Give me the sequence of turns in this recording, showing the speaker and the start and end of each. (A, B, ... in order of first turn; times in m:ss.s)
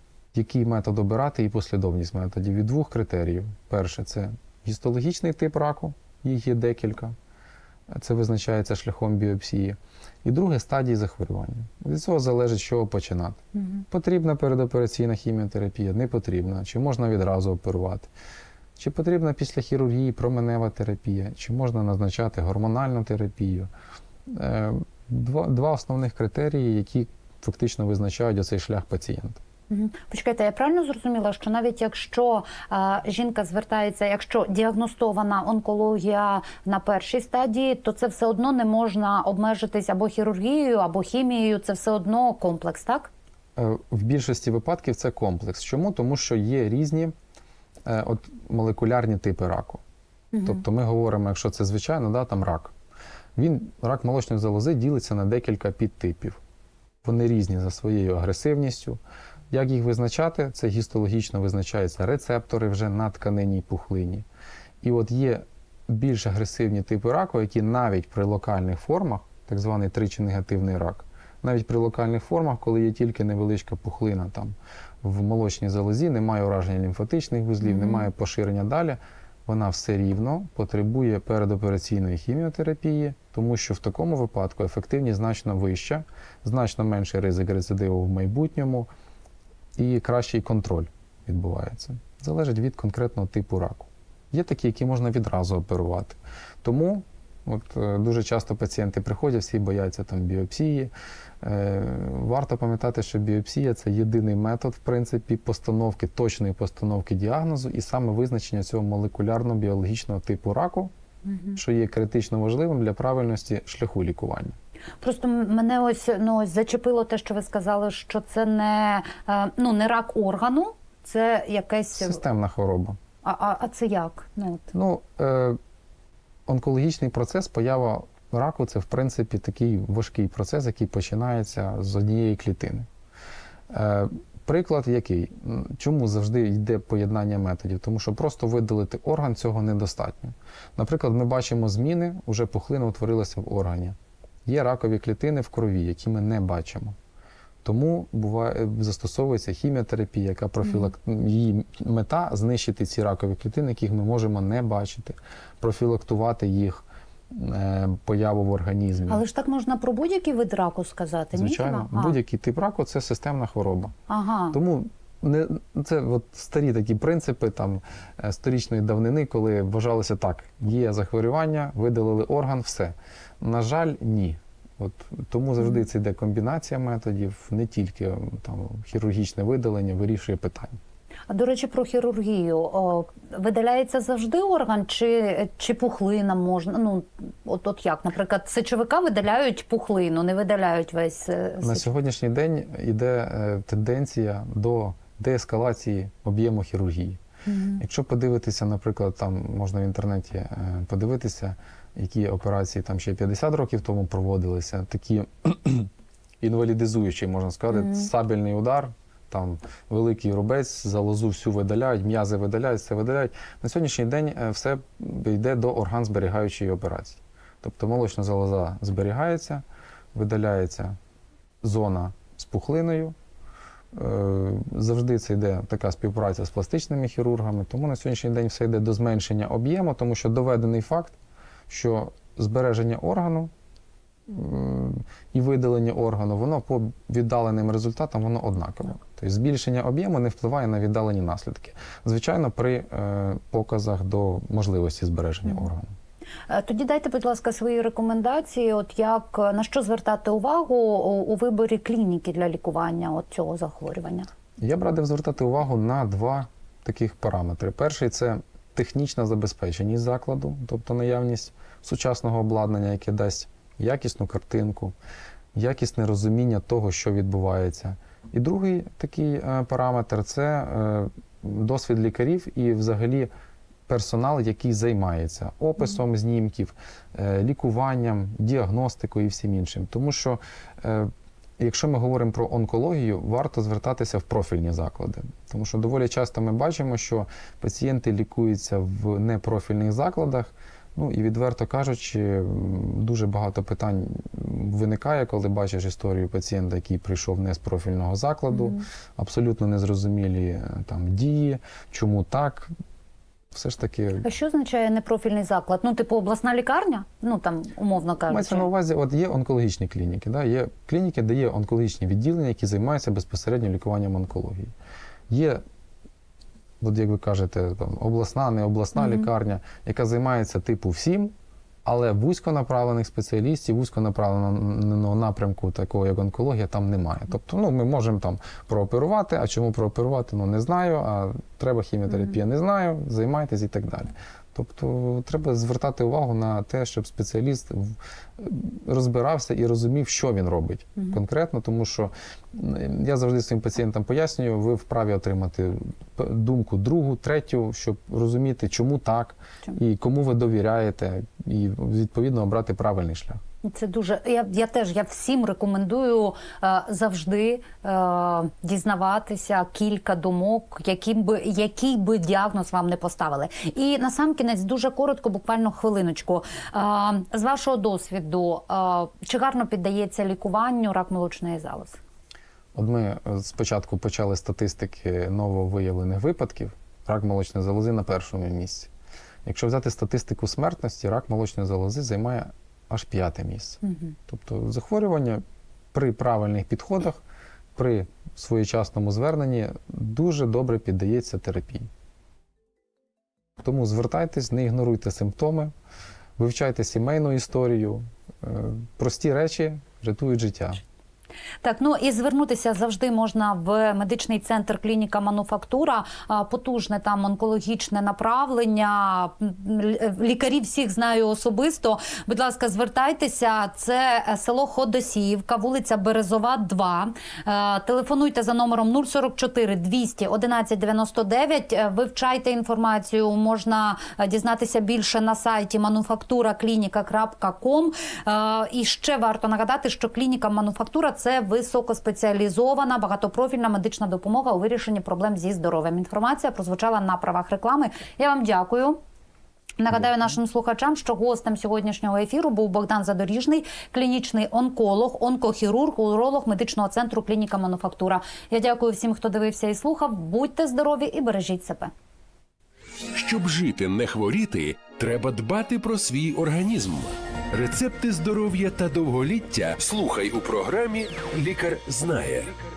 0:00.3-0:07.2 A
0:07.9-0:18.1 A
0:13.6-0:13.8 B
0:18.8-0:23.7 A
0:24.2-0:29.4 A
0:29.7-0:43.1 B
0:43.6-0:47.1 A
0:47.8-0:49.8 A
0:50.3-0:50.6 B
0:50.4-0:52.7 A
0:53.4-0:56.4 A
0:57.0-0:59.0 A
0:59.5-1:04.2 A
1:04.8-1:28.9 A
1:17.6-1:18.1 B
1:29.8-1:50.9 A
1:51.2-1:51.6 B
1:51.6-1:54.6 A
1:55.0-2:02.2 B
2:01.9-2:03.0 A
2:03.2-2:04.7 B
2:04.7-2:05.6 A
2:06.5-2:12.9 A
2:13.7-2:27.0 A
2:27.6-2:39.2 A
2:30.6-2:30.9 B
2:39.1-2:42.2 B
2:41.3-2:43.9 A
2:44.1-2:44.6 B
2:44.5-3:00.8 A
3:01.3-3:11.9 B
3:11.6-3:17.2 A
3:17.4-3:17.8 B
3:17.8-3:25.9 A
3:26.4-3:41.0 A
3:27.8-3:28.1 B
3:41.6-3:43.1 A
3:43.9-3:51.2 A
3:51.7-3:53.5 A
3:54.3-4:05.9 A
4:06.5-4:14.3 B
4:14.6-4:25.0 A
4:25.5-4:33.3 A
4:33.9-5:02.7 A
4:58.5-4:58.8 B
5:03.5-5:04.2 A
5:04.2-5:08.7 B
5:08.3-5:14.7 A
5:15.3-5:15.6 A
5:16.8-5:21.3 A
5:19.0-5:19.3 B
5:21.8-5:53.4 A
5:53.6-6:12.0 B
6:12.7-6:18.9 A
6:19.4-6:27.2 A
6:23.8-6:24.1 B
6:27.7-6:31.9 A
6:33.6-6:35.7 A
6:36.4-6:40.8 A
6:41.6-7:19.0 B
7:19.8-7:31.9 B
7:33.1-7:42.5 C